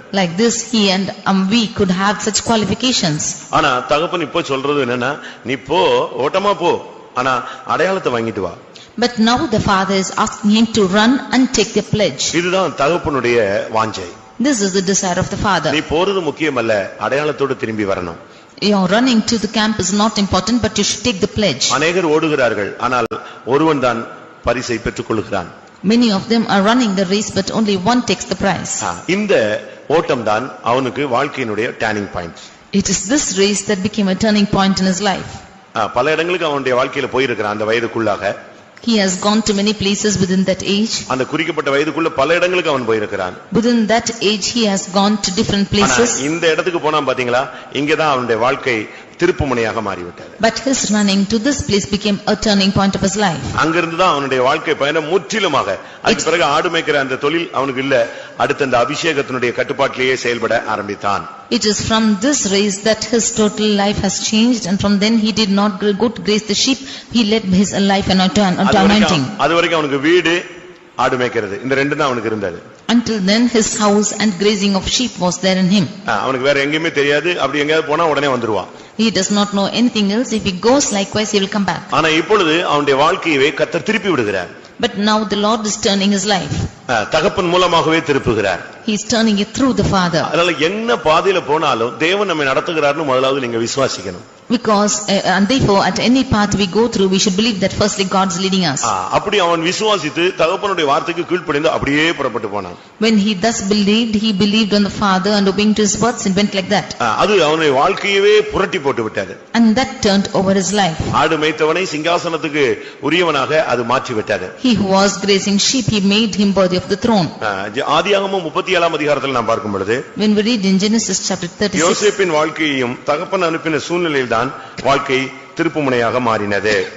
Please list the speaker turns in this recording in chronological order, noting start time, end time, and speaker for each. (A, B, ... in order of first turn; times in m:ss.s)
0:00.1-0:03.4 A
0:03.5-0:08.6 B
0:09.0-0:12.3 A
0:12.3-0:14.1 B
0:14.4-0:15.8 A
0:15.7-0:18.2 B
0:18.6-0:21.8 A
0:21.7-0:25.5 B
0:25.8-0:28.8 A
0:28.8-0:32.4 B
0:32.7-0:35.4 A
0:35.8-0:38.3 B
0:38.8-0:41.1 A
0:41.1-0:43.4 B
0:43.5-0:46.2 A
0:45.8-0:50.4 B
0:50.4-0:53.5 A
0:53.6-1:01.3 B
1:01.5-1:09.3 A
1:08.6-1:10.4 B
1:11.0-1:12.6 B
1:12.9-1:15.9 A
1:16.1-1:18.7 B
1:19.0-1:21.9 A
1:21.9-1:24.5 B
1:24.8-1:26.7 A
1:26.9-1:28.6 B
1:28.8-1:30.3 A
1:30.2-1:34.2 B
1:34.5-1:38.9 A
1:38.8-1:42.8 B
1:43.0-1:47.0 A
1:47.0-1:49.4 B
1:49.5-1:51.1 A
1:51.1-1:54.5 B
1:54.6-1:57.3 A
1:57.4-2:00.0 B
2:00.2-2:02.1 A
2:01.8-2:06.8 B